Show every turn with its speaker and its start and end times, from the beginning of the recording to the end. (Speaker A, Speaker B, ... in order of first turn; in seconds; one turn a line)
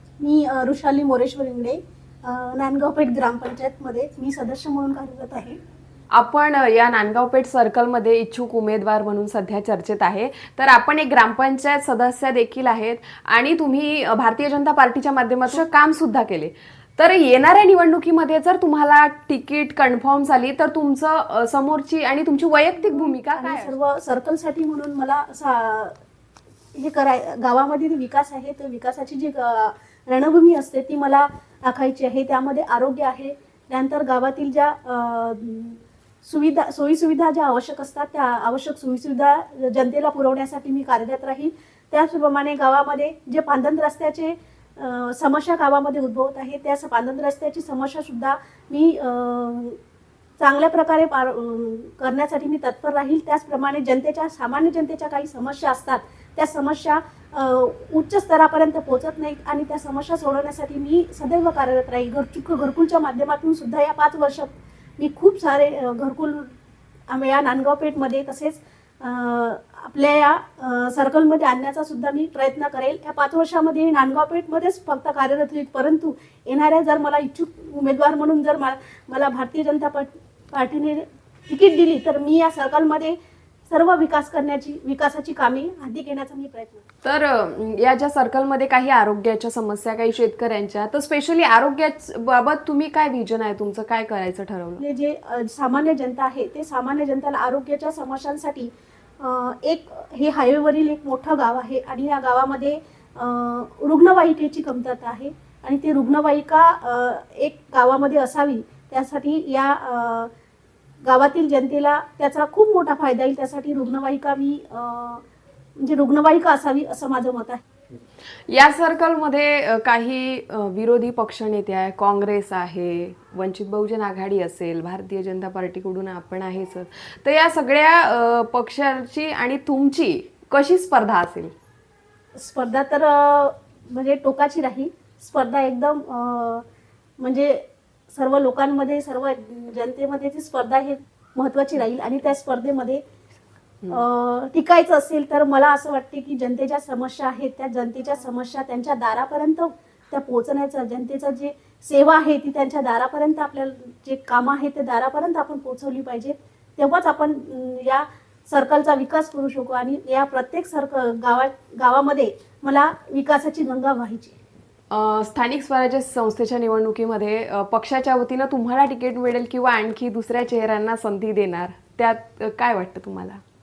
Speaker A: 0.2-5.6
Speaker B: 6.1-23.8
Speaker A: 22.8-25.9
Speaker A: 26.8-49.8
Speaker A: 50.4-66.5
Speaker A: 67.1-83.2
Speaker A: 83.7-86.8
Speaker B: 87.0-94.8
Speaker A: 94.8-110.3
Speaker A: 111.0-115.2
Speaker A: 115.8-117.6
Speaker B: 118.5-131.5
Speaker A: 132.4-136.6
Speaker A: 137.2-143.0
Speaker A: 143.9-164.3
Speaker B: 164.9-173.4